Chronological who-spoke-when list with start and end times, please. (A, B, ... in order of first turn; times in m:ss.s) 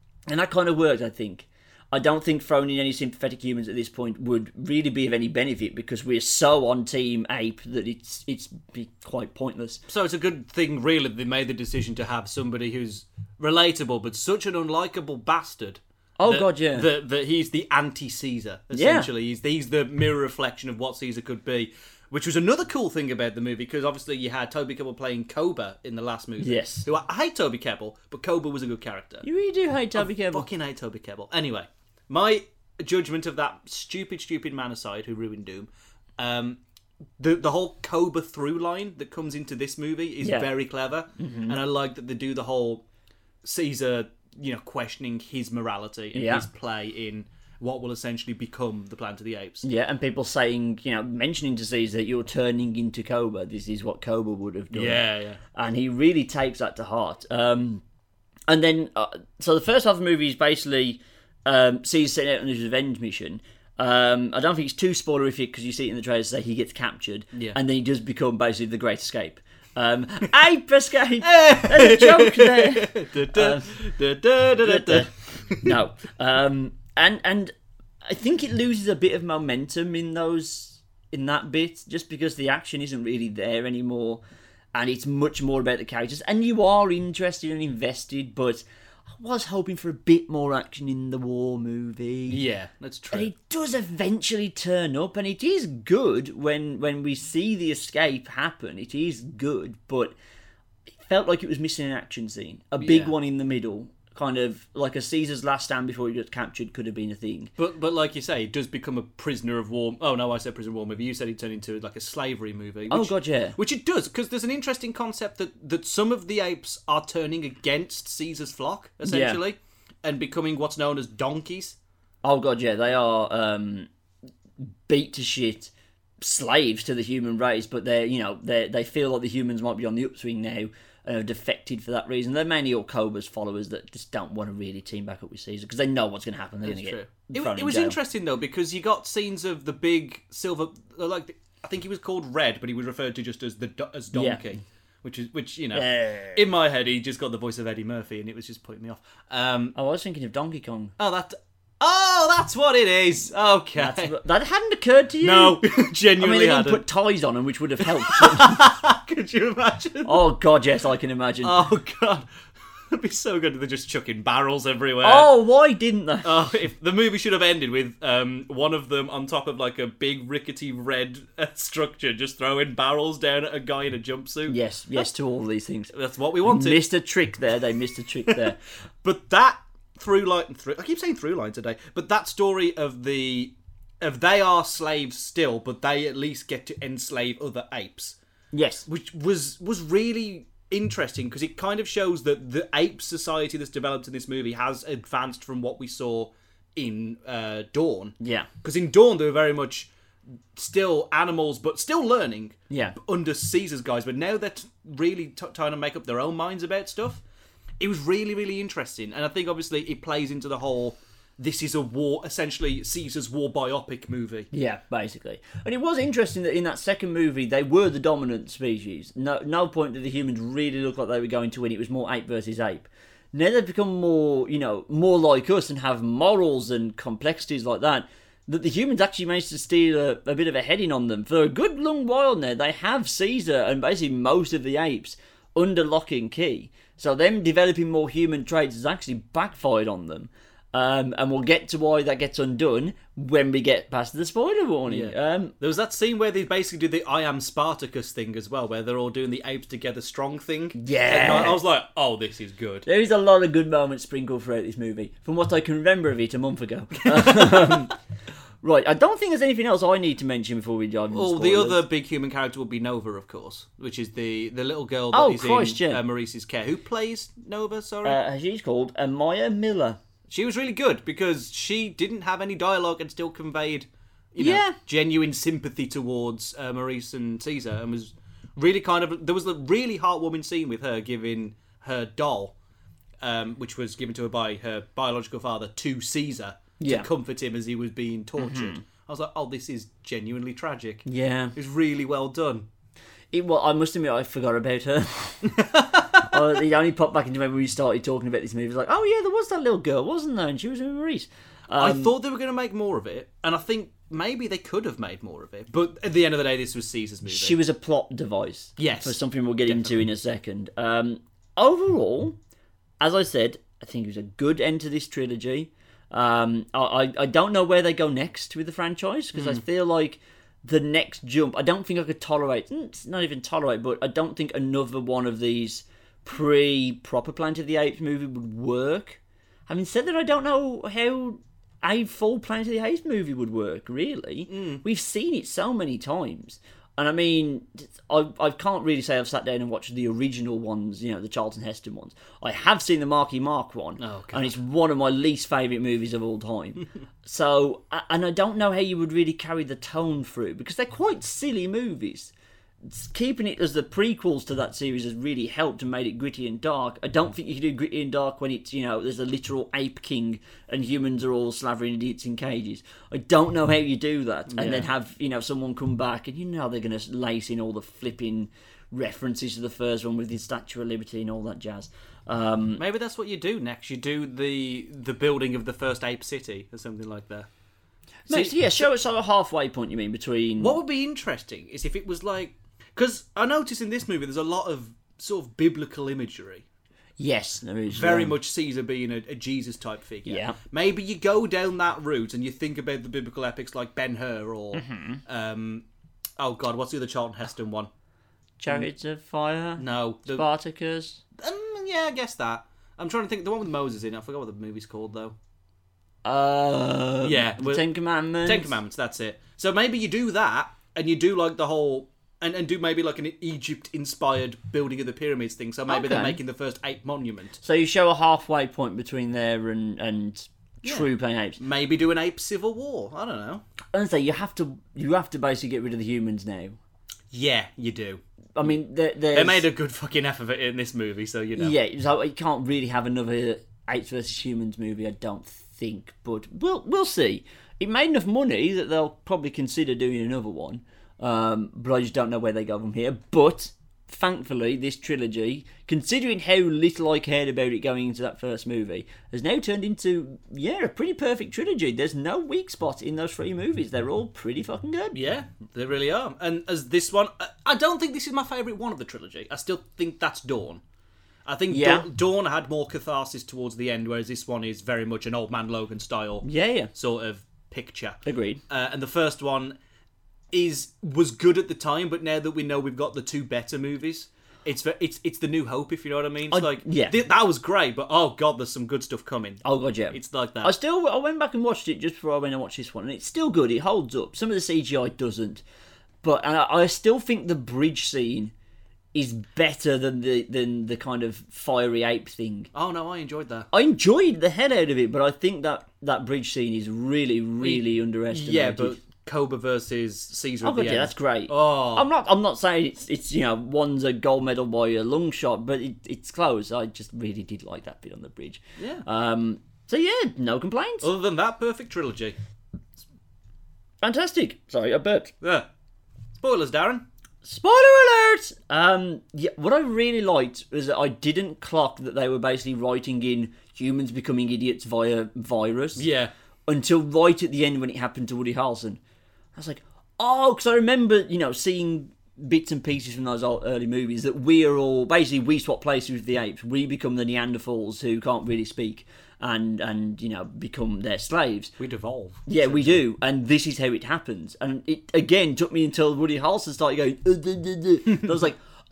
0:00.3-0:09.8 A
0:09.9-0:29.2 B
0:16.2-0:16.9 A
0:18.7-0:19.1 A
0:26.4-0:26.9 A
0:29.2-0:30.5 A
0:30.0-0:36.6 B
0:37.2-0:42.8 B
0:40.2-0:40.5 A
0:41.2-0:41.6 A
0:43.4-0:49.6 B
0:46.1-0:46.5 A
0:49.6-0:55.0 A
0:54.7-0:55.4 B
0:55.5-0:57.8 A
0:58.5-1:13.8 A
1:11.2-1:15.8 B
1:14.6-1:24.2 A
1:24.7-1:32.4 A
1:32.3-1:33.3 B
1:33.1-1:40.1 A
1:41.0-1:47.5 A
1:42.8-1:43.1 B
1:47.6-2:01.8 B
1:52.9-1:53.6 A
1:59.0-1:59.4 A
2:02.2-2:03.9 A
2:04.6-2:18.0 A
2:16.6-2:29.8 B
2:24.1-2:24.5 A
2:25.8-2:26.4 A
2:29.8-2:30.9 A
2:31.0-2:34.1 B
2:33.8-2:35.6 A
2:35.2-2:36.8 B
2:36.2-2:38.7 A
2:37.8-2:40.2 B
2:40.1-2:41.5 A
2:41.4-2:42.3 B
2:42.9-2:45.3 B
2:45.0-2:46.3 A
2:46.2-2:54.6 B
2:54.5-2:55.9 A
2:55.9-2:56.8 B
2:56.4-2:58.6 A
2:59.0-3:08.2 B
3:08.5-3:08.9 A
3:08.9-3:19.9 B
3:18.2-3:18.5 A
3:20.6-3:27.2 B
3:22.7-3:23.0 A
3:27.8-3:34.5 B
3:34.5-4:05.5 A
4:04.9-4:12.9 B
4:10.8-4:11.6 A
4:12.9-4:17.9 A
4:17.0-4:17.9 B
4:18.6-4:21.8 A
4:21.1-4:28.2 B
4:25.1-4:26.0 A
4:28.0-4:30.0 A
4:30.3-4:42.6 B
4:34.4-4:34.8 A
4:43.2-4:52.7 B
4:46.8-4:47.1 A
4:48.4-4:48.8 A
4:51.1-4:51.5 A
4:53.3-5:02.1 A
4:55.5-4:56.4 B
5:01.8-5:07.6 B
5:07.3-5:12.4 A
5:08.8-5:10.0 B
5:13.0-5:52.3 A
5:19.4-5:19.6 B
5:34.5-5:34.8 B
5:44.0-5:44.6 B
5:52.8-6:12.8 A
6:04.5-6:04.9 B
6:12.8-6:17.5 B
6:18.3-6:20.8 A
6:18.3-6:18.6 B
6:20.6-6:26.6 B
6:27.2-6:28.3 A
6:27.9-6:35.8 B
6:30.3-6:30.6 A
6:34.8-6:35.2 A
6:36.4-6:37.9 B
6:38.6-6:41.2 A
6:39.8-6:40.4 B
6:41.4-6:45.4 B
6:46.2-6:48.8 A
6:47.2-6:47.8 B
6:48.4-6:57.6 B
6:55.9-6:56.4 A
6:57.6-7:01.6 A
7:00.8-7:03.6 B
7:03.9-7:06.8 A
7:07.3-7:08.2 B
7:08.6-7:09.7 A
7:09.3-7:11.8 B
7:11.6-7:35.2 A
7:35.1-7:40.8 B
7:41.5-7:49.8 B
7:41.7-7:42.1 A
7:46.4-7:46.9 A
7:48.2-7:48.6 A
7:50.5-8:00.7 B
7:56.5-7:57.2 A
7:59.6-8:05.6 A
8:06.2-8:08.5 A
8:09.1-8:12.7 A
8:12.7-8:13.7 B
8:13.7-8:19.0 A
8:17.6-8:22.1 B
8:20.6-8:31.1 A
8:28.8-8:29.0 B
8:31.0-8:32.4 B
8:34.0-8:35.3 A
8:35.4-8:35.7 B
8:36.4-8:37.0 B
8:37.4-8:46.1 A
8:46.0-8:46.3 B
8:46.7-8:49.0 A
8:49.6-9:01.7 A
9:01.8-9:03.0 B
9:02.5-9:08.6 A